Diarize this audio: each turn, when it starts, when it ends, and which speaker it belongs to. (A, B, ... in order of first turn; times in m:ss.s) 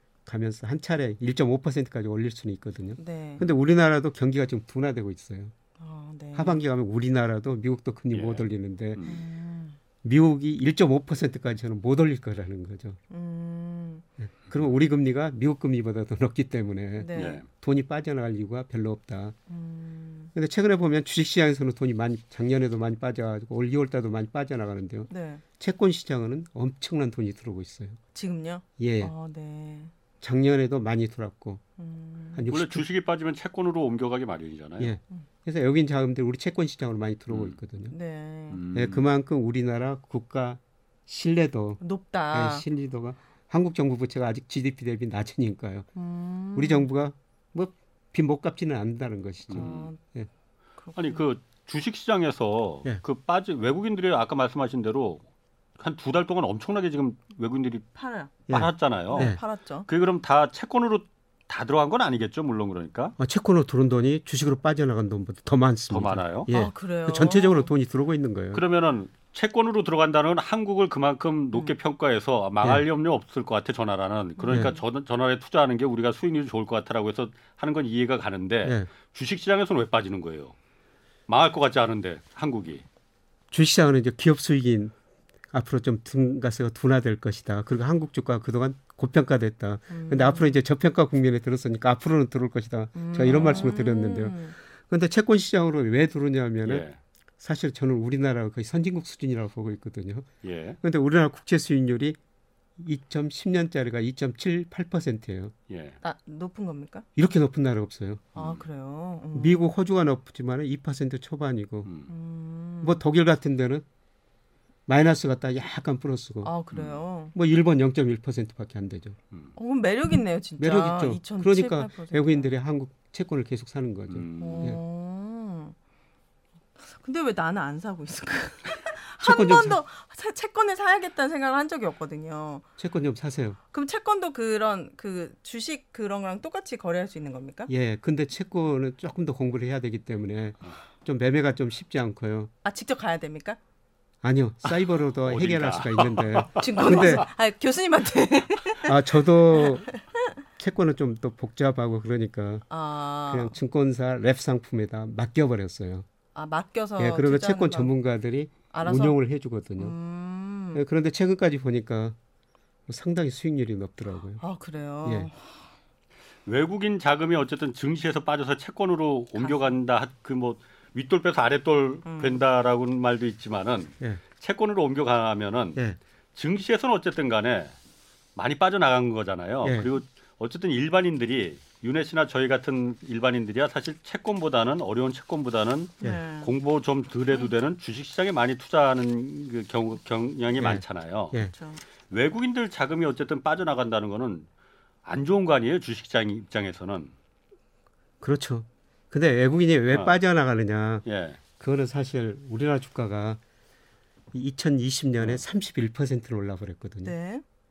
0:00.3-0:05.5 A
0:03.0-0:03.4 B
0:05.8-0:06.6 B
0:06.4-0:09.0 A
0:08.1-0:09.2 C
0:09.0-0:09.8 B
0:10.0-0:13.0 A
0:13.1-0:14.0 B
0:14.2-0:19.4 A
0:17.0-0:17.4 B
0:17.1-0:17.4 C
0:19.5-0:20.3 B
0:20.3-0:28.0 A
0:25.1-0:25.4 B
0:28.1-0:29.9 B
0:28.8-0:29.1 A
0:30.2-0:31.6 A
0:31.8-0:32.4 B
0:32.3-0:32.9 A
0:32.5-0:34.9 C
0:34.8-0:37.9 A
0:37.3-0:37.6 C
0:37.9-0:38.6 B
0:38.5-0:39.1 C
0:38.7-0:41.8 A
0:41.8-0:42.6 B
0:42.3-0:45.9 A
0:46.0-0:46.9 B
0:46.6-0:50.3 A
0:49.5-0:49.9 C
0:49.6-0:50.0 B
0:50.8-0:51.2 B
0:51.0-0:55.2 C
0:55.8-0:57.8 C
0:57.9-0:58.3 B
0:58.5-1:03.2 C
0:58.5-0:59.4 A
0:59.1-0:59.9 B
1:03.2-1:08.6 A
1:05.9-1:06.5 C
1:06.5-1:07.7 B
1:08.5-1:20.5 C
1:14.4-1:14.8 B
1:14.5-1:14.8 A
1:21.3-1:22.8 C
1:23.5-1:24.9 A
1:25.5-1:36.9 A
1:29.9-1:30.6 B
1:33.0-1:34.6 B
1:36.6-1:37.0 C
1:37.4-1:40.3 A
1:40.4-1:40.8 C
1:40.8-1:42.2 A
1:42.8-1:45.5 A
1:45.7-1:46.0 C
1:46.0-1:47.1 B
1:47.2-1:48.3 A
1:48.4-1:48.6 C
1:48.4-1:49.7 B
1:49.3-1:51.9 A
1:51.8-1:52.1 C
1:52.1-1:53.0 B
1:52.8-1:53.8 A
1:54.9-1:56.5 A
1:56.4-1:57.3 B
1:56.7-1:57.0 C
1:57.3-1:59.2 A
1:59.6-2:02.5 B
2:00.6-2:04.8 A
2:04.1-2:04.8 C
2:04.4-2:05.8 B
2:06.8-2:12.6 B
2:09.2-2:09.8 A
2:12.8-2:13.6 A
2:13.7-2:17.7 B
2:17.7-2:22.5 A
2:22.6-2:23.6 B
2:24.2-2:27.3 A
2:25.2-2:27.2 C
2:26.6-2:29.0 B
2:28.8-2:29.9 A
2:29.5-2:30.0 B
2:30.6-2:32.6 A
2:32.7-2:33.6 B
2:33.3-2:36.1 A
2:36.4-2:37.9 B
2:37.0-2:40.0 A
2:38.7-2:39.2 B
2:39.8-2:40.8 B
2:40.7-2:42.2 A
2:42.9-2:44.4 A
2:44.4-2:45.6 B
2:45.0-2:45.3 A
2:46.5-2:55.8 C
2:49.4-2:49.8 B
2:52.0-2:52.4 B
2:56.4-2:57.8 C
2:58.4-3:11.4 C
2:59.6-2:59.9 A
3:06.0-3:06.5 B
3:10.6-3:11.5 A
3:11.4-3:11.8 B
3:12.1-3:14.5 C
3:15.0-3:17.1 C
3:18.2-3:21.0 A
3:19.9-3:20.2 C
3:21.1-3:21.4 C
3:21.6-3:23.4 A
3:24.3-3:27.1 A
3:27.0-3:27.4 B